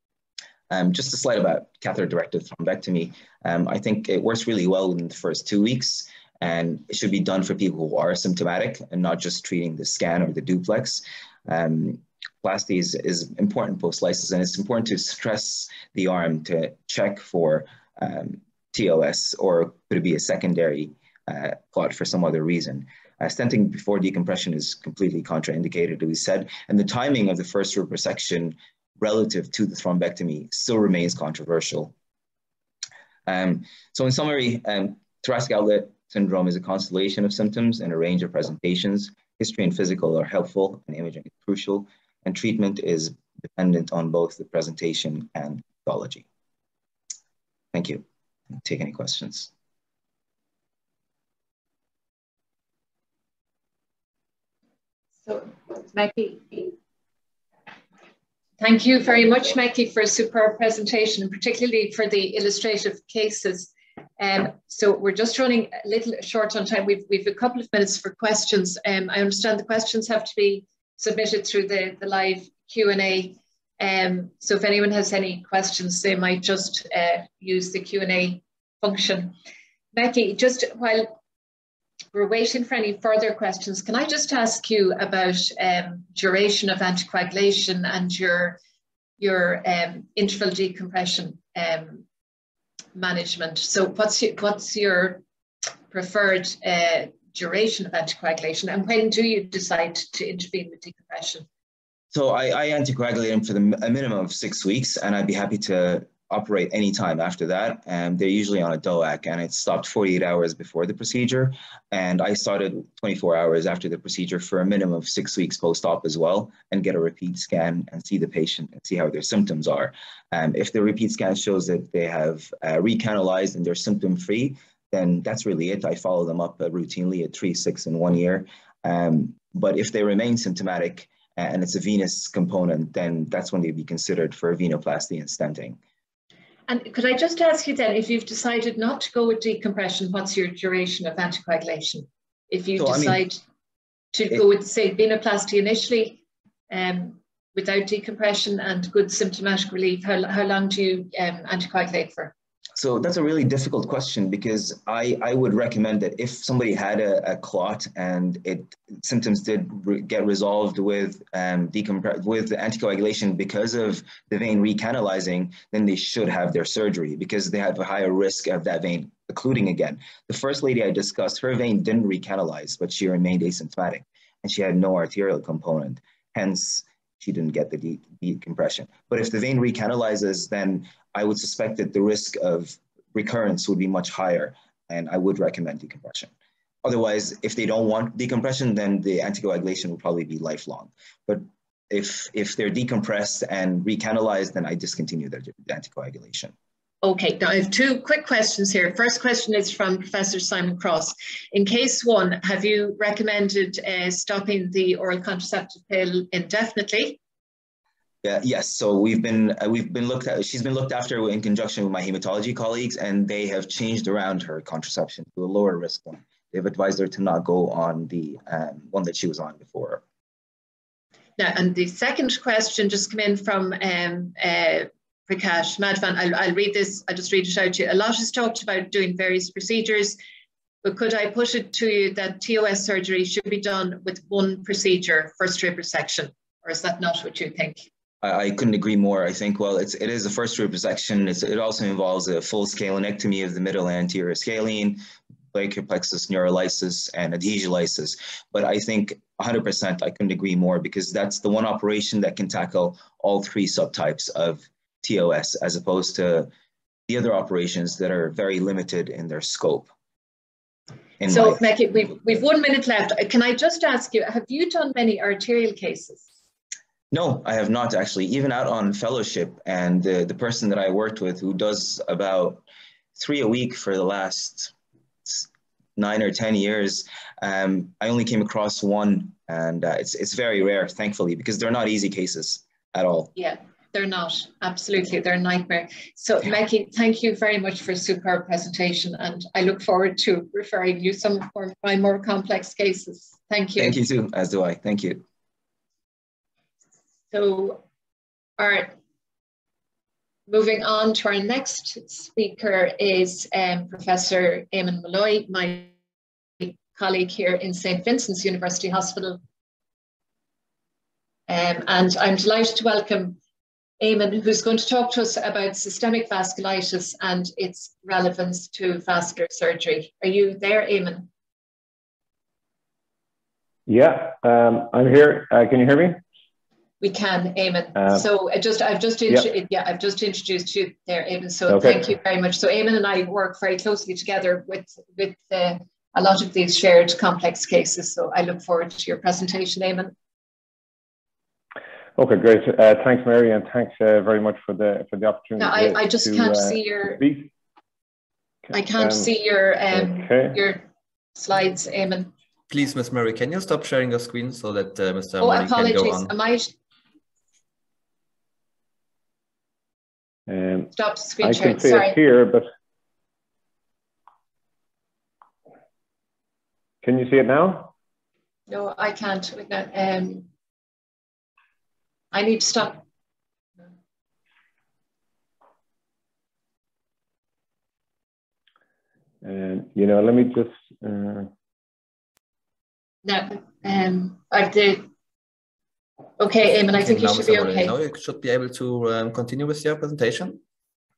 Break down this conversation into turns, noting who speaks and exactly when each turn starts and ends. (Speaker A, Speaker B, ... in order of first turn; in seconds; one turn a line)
Speaker A: 0.7-31.9
Speaker A: 33.2-46.2
Speaker A: 47.7-48.0
Speaker A: 48.5-49.5
Speaker B: 55.2-56.7
Speaker B: 58.6-79.3
Speaker B: 79.9-81.1
Speaker B: 82.1-88.6
Speaker B: 89.2-92.0
Speaker B: 92.9-95.2
Speaker B: 95.9-101.5
Speaker A: 102.1-135.8
Speaker B: 136.7-143.4
Speaker A: 142.8-143.2
Speaker B: 144.1-152.3
Speaker A: 152.8-186.3
Speaker A: 186.8-196.5
Speaker B: 197.0-207.2
Speaker A: 208.2-220.0
Speaker B: 221.4-230.2
Speaker B: 230.8-237.8
Speaker A: 238.2-245.0
Speaker A: 245.5-256.5
Speaker A: 257.1-259.9
Speaker A: 261.2-261.6
Speaker B: 261.3-266.2
Speaker A: 267.1-272.6
Speaker A: 273.1-274.7
Speaker A: 275.2-283.3
Speaker B: 283.4-294.0
Speaker A: 293.8-295.2
Speaker B: 297.3-297.8
Speaker B: 298.6-298.9
Speaker B: 300.5-305.9
Speaker B: 306.6-309.4
Speaker B: 311.5-313.4
Speaker B: 314.0-321.3
Speaker C: 323.9-326.2
Speaker B: 327.0-340.1
Speaker C: 327.9-328.2
Speaker C: 331.7-332.1
Speaker C: 342.1-347.5
Speaker B: 345.6-347.2
Speaker C: 348.7-349.3
Speaker B: 348.7-352.3
Speaker C: 349.9-350.6
Speaker D: 352.7-356.3
Speaker B: 355.4-356.7
Speaker C: 360.5-362.7
Speaker B: 360.9-362.2
Speaker C: 367.0-367.9
Speaker B: 368.7-370.5
Speaker B: 372.3-373.0
Speaker C: 379.4-381.5
Speaker B: 383.2-385.1
Speaker B: 386.4-387.9
Speaker D: 386.6-390.6